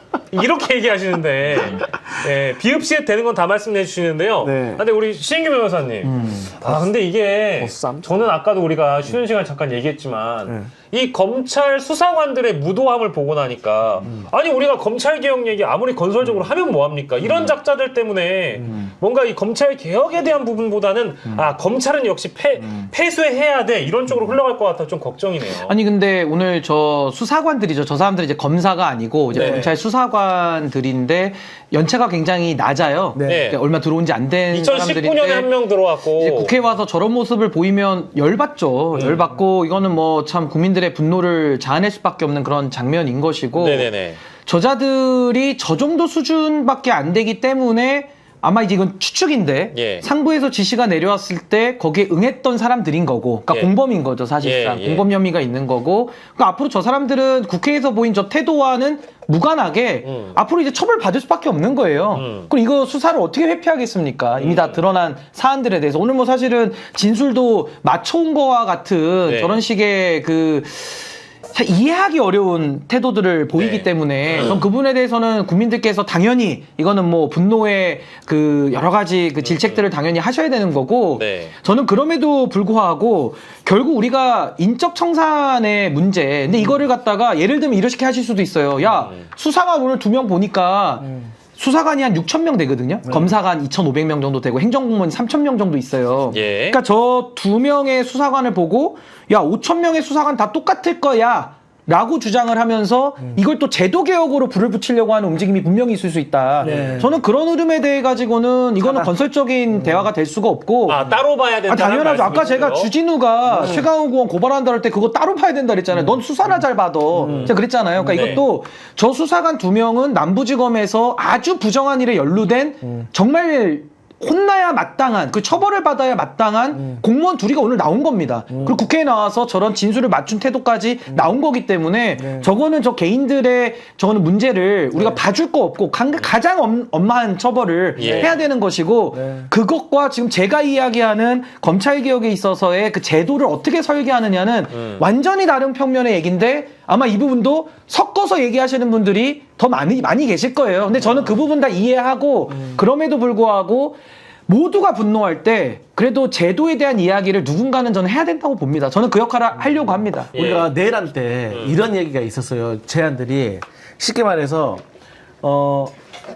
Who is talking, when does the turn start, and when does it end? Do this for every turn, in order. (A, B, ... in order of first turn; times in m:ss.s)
0:00.3-0:25.8 A
0:04.4-0:04.8 B
0:07.6-0:08.2 B
0:10.4-0:10.7 B
0:18.6-0:18.9 B
0:25.7-0:35.5 C
0:29.3-0:29.7 A
0:29.3-0:29.7 B
0:33.1-0:33.5 B
0:33.2-0:33.6 A
0:34.5-0:36.6 A
0:36.2-1:51.0 C
0:38.9-0:39.2 A
0:39.0-0:39.4 B
0:43.6-0:44.2 A
0:49.7-0:50.0 A
0:54.4-0:55.1 A
1:00.0-1:00.4 A
1:02.1-1:02.5 A
1:04.4-1:04.8 A
1:09.2-1:09.6 A
1:13.6-1:14.6 A
1:19.4-1:19.9 A
1:21.1-1:21.5 A
1:28.8-1:29.3 A
1:31.0-1:31.3 B
1:33.0-1:33.3 B
1:36.3-1:36.8 A
1:46.6-1:47.2 B
1:46.6-1:46.9 A
1:48.8-1:50.1 B
1:50.8-1:52.9 A
1:51.7-2:40.3 C
1:53.5-1:53.9 B
1:57.1-1:58.4 B
1:57.2-1:58.4 A
2:02.8-2:03.1 B
2:06.7-2:07.0 B
2:08.5-2:08.8 B
2:12.2-2:12.5 B
2:18.0-2:18.4 A
2:18.0-2:18.3 B
2:19.1-2:19.5 B
2:24.7-2:25.0 A
2:32.5-2:32.8 B
2:40.3-2:40.7 A
2:40.3-2:44.8 B
2:41.5-2:41.8 A
2:45.4-2:45.9 B